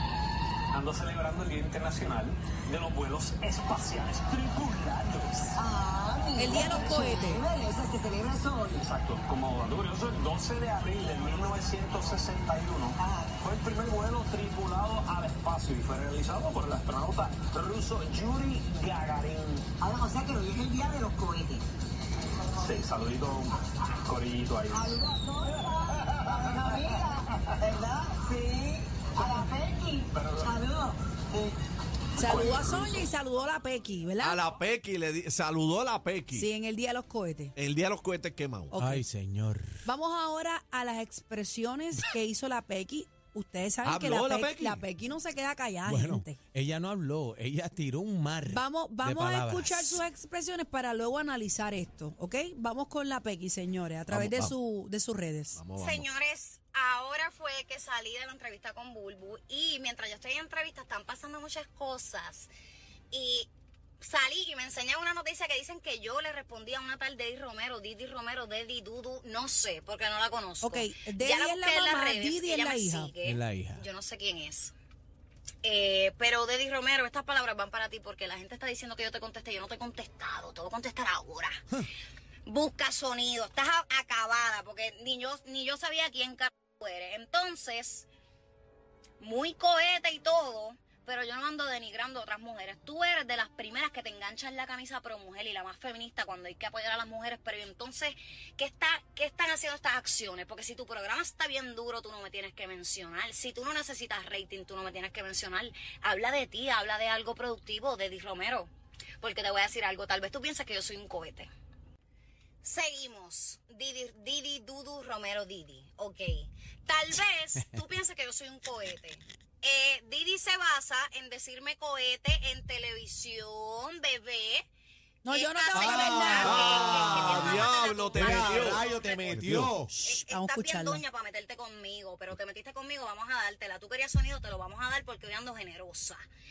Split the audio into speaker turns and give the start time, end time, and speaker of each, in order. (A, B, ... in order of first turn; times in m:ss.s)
0:00.7-0:05.6 A
0:05.6-0:08.9 B
0:06.4-0:07.4 C
0:06.6-0:07.1 A
0:08.8-0:19.7 A
0:13.0-0:13.4 B
0:19.8-0:21.6 B
0:22.6-0:25.0 A
0:24.7-0:31.6 B
0:30.2-0:30.5 A
0:32.2-0:34.4 C
0:32.3-0:32.9 A
0:34.2-0:36.5 D
0:36.3-0:37.5 C
0:37.6-0:38.7 D
0:38.7-0:39.0 C
0:38.8-0:39.9 E
0:39.8-0:46.4 C
0:43.8-0:44.8 D
0:45.9-0:50.0 E
0:48.5-0:55.6 C
0:54.1-0:54.6 D
0:55.6-0:56.1 D
0:55.8-1:02.5 F
1:03.1-1:03.5 F
1:04.0-1:14.7 F
1:10.6-1:13.1 C
1:13.2-1:13.8 E
1:15.6-1:21.6 F
1:22.5-1:28.1 F
1:29.2-1:48.7 F
1:49.2-1:51.5 F
1:52.6-2:04.7 F
2:05.2-2:06.7 C
2:05.3-2:09.4 F
2:05.7-2:09.9 E
2:06.4-2:09.8 D
2:09.9-2:11.0 C
2:10.0-2:16.2 F